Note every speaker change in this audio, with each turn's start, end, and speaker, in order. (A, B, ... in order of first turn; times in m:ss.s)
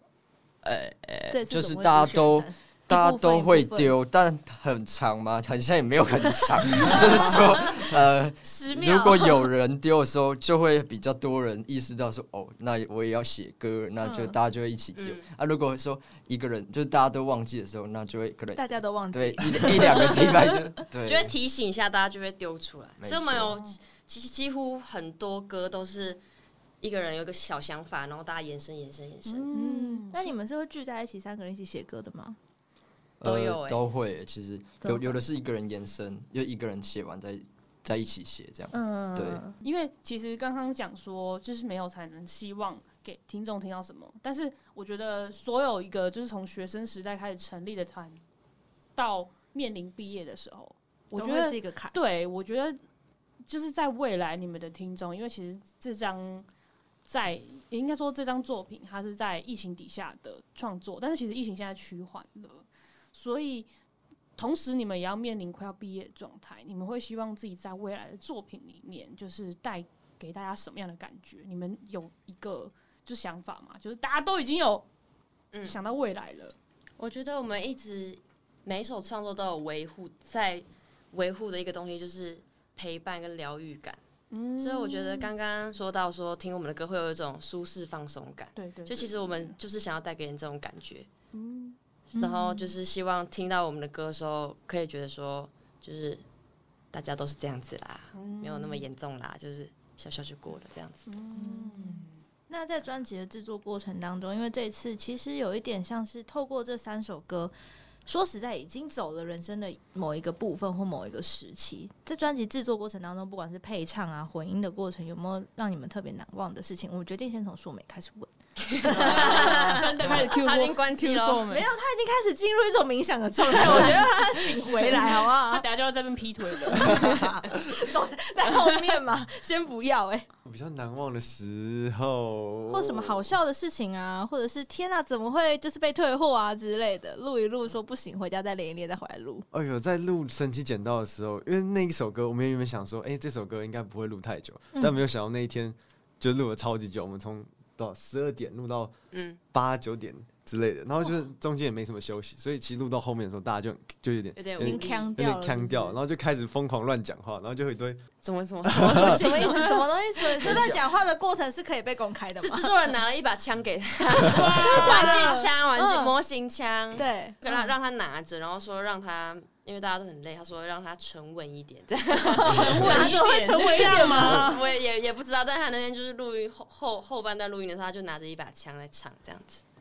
0:00.6-0:21.3 A
0:01.3-0:04.0 B
0:06.8-0:09.5 B
0:14.0-0:14.3 B
0:15.0-0:15.2 C
0:18.5-0:20.8 B
0:21.0-0:26.2 C
0:23.0-0:23.5 A
0:23.5-0:23.8 D
0:26.8-0:29.5 C
0:29.2-0:30.3 D
0:29.5-0:32.4 B
0:33.2-0:39.4 A
0:33.2-0:33.8 C
0:34.8-0:35.2 B
0:38.7-0:39.5 B
0:39.6-0:48.2 D
0:48.9-0:52.8 D
0:51.2-0:52.0 B
0:53.4-0:56.4 D
0:57.0-1:03.7 D
1:04.4-1:14.8 D
1:15.5-1:15.8 C
1:15.6-1:16.5 D
1:17.0-1:24.0 C
1:24.3-1:25.3 D
1:24.6-1:31.1 C
1:28.6-1:29.5 D
1:31.3-1:31.8 D
1:32.2-1:32.7 B
1:32.2-1:36.2 C
1:36.9-1:41.1 C
1:38.1-1:38.9 D
1:41.1-1:42.2 D
1:41.3-1:47.5 B
1:48.0-2:00.2 B
1:58.6-2:01.4 C
1:58.9-2:01.7 D
2:01.5-2:05.6 B
2:03.6-2:07.3 D
2:06.6-2:10.3 B
2:10.4-2:13.3 E
2:12.7-2:19.4 B
2:19.5-2:28.9 E
2:24.7-2:25.0 B
2:29.1-2:29.4 C
2:29.5-2:38.0 E
2:34.3-2:35.1 C
2:34.6-2:36.0 B
2:38.2-2:40.8 C
2:38.6-2:39.2 E
2:38.8-2:42.7 B
2:42.4-2:53.2 C
2:44.3-2:46.1 B
2:44.5-2:45.3 D
2:46.9-2:47.6 B
2:52.3-2:54.7 D
2:52.4-2:54.5 B
2:54.0-2:59.6 C